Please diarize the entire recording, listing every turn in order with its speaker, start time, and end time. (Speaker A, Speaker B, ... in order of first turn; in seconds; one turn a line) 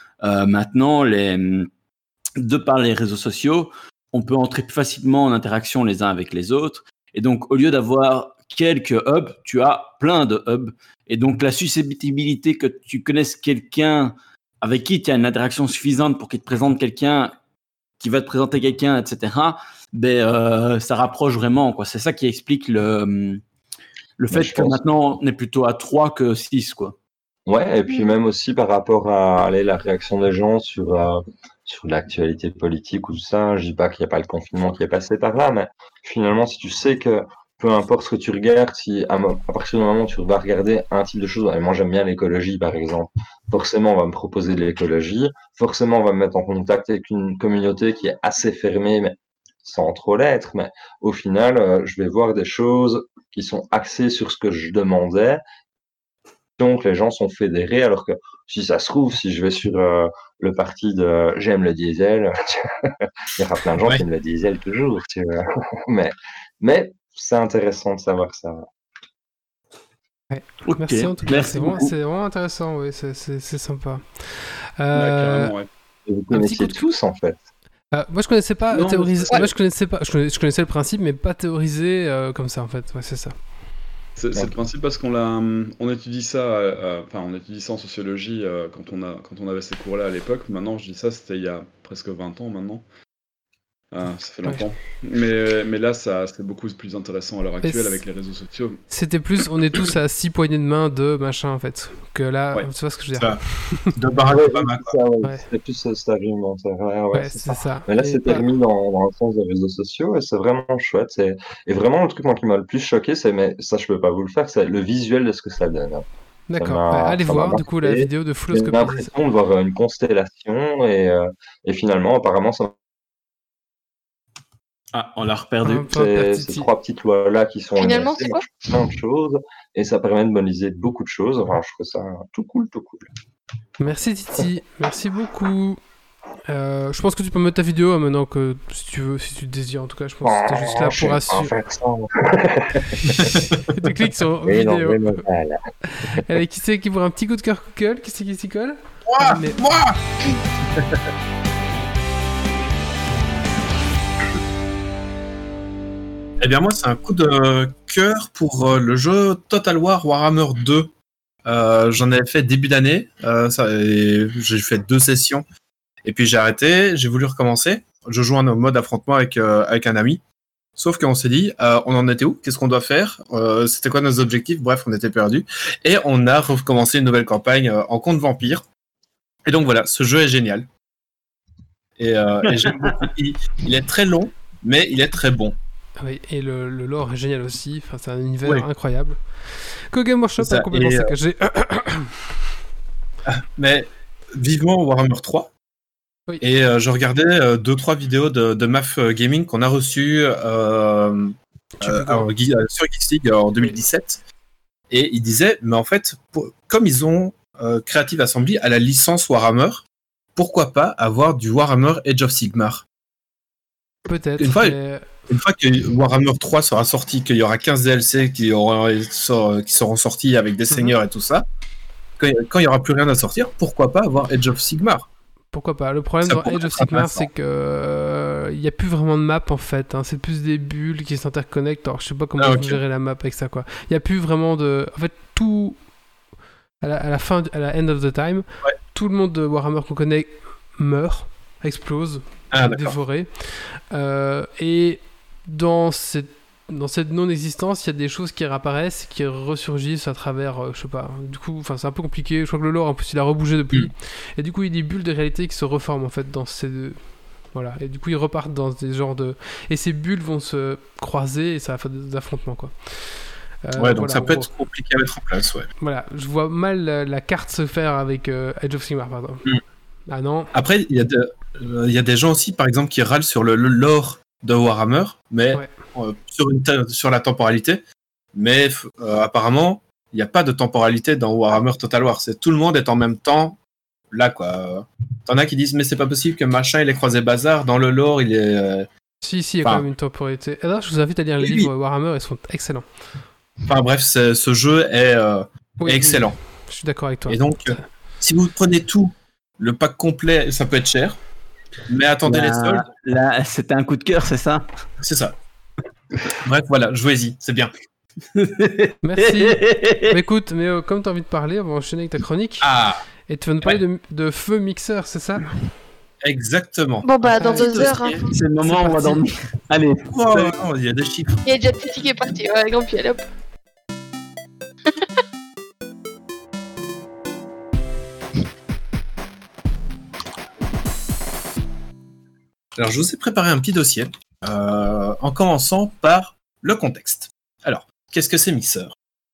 Speaker A: 0.2-1.7
Speaker A: 2.4-17.3
Speaker A: 18.0-23.4
Speaker A: 24.2-27.0
Speaker B: 24.3-24.8
Speaker B: 27.5-55.4
Speaker B: 56.6-68.6
Speaker C: 70.3-75.5
Speaker A: 70.7-71.9
Speaker D: 74.9-75.7
Speaker B: 76.1-77.4
Speaker C: 76.3-76.8
Speaker C: 77.9-83.3
Speaker D: 78.7-79.5
Speaker D: 84.2-92.8
Speaker D: 93.9-98.8
Speaker C: 97.6-98.0
Speaker C: 98.9-103.9
Speaker E: 103.1-104.9
Speaker B: 104.3-116.0
Speaker C: 107.1-108.5
Speaker C: 116.5-119.1
Speaker B: 116.6-122.7
Speaker A: 124.9-125.9
Speaker C: 125.6-126.7
Speaker B: 125.9-133.1
Speaker F: 127.8-128.7
Speaker C: 133.8-135.8
Speaker C: 136.5-141.5
Speaker B: 140.2-143.4
Speaker C: 143.7-145.2
Speaker B: 144.4-145.6
Speaker C: 145.9-149.6
Speaker E: 149.1-150.0
Speaker E: 156.4-160.9
Speaker E: 161.4-165.4
Speaker E: 166.0-170.2
Speaker E: 170.8-178.7
Speaker E: 179.4-180.7
Speaker E: 182.0-185.5
Speaker C: 186.0-192.3
Speaker E: 190.4-191.1
Speaker E: 193.2-195.5
Speaker E: 196.4-204.2
Speaker C: 201.8-202.3
Speaker E: 204.9-209.8
Speaker E: 210.3-212.8
Speaker C: 214.1-215.1
Speaker E: 214.4-214.8
Speaker E: 215.3-221.4
Speaker C: 220.7-221.0
Speaker E: 222.2-225.1
Speaker C: 225.5-235.8
Speaker E: 226.2-227.3
Speaker E: 232.4-232.8
Speaker C: 236.8-257.0
Speaker E: 242.5-243.0
Speaker C: 257.5-264.5
Speaker E: 263.8-265.7
Speaker C: 265.8-269.5
Speaker C: 270.1-270.5
Speaker E: 270.5-277.8
Speaker E: 278.3-283.6
Speaker E: 284.1-288.9
Speaker C: 289.2-292.9
Speaker E: 291.4-291.7
Speaker E: 293.7-296.4
Speaker C: 295.8-297.8
Speaker E: 297.3-301.2
Speaker E: 301.9-302.9
Speaker A: 302.2-304.6
Speaker E: 305.0-305.4
Speaker E: 306.4-307.7
Speaker A: 308.3-310.2
Speaker C: 309.0-312.7
Speaker E: 312.6-313.0
Speaker C: 313.3-315.5
Speaker E: 316.2-318.2
Speaker F: 317.0-318.3
Speaker C: 317.3-317.8
Speaker A: 318.3-320.5
Speaker C: 318.6-319.2
Speaker E: 320.1-321.4
Speaker F: 321.4-323.2
Speaker E: 332.8-338.9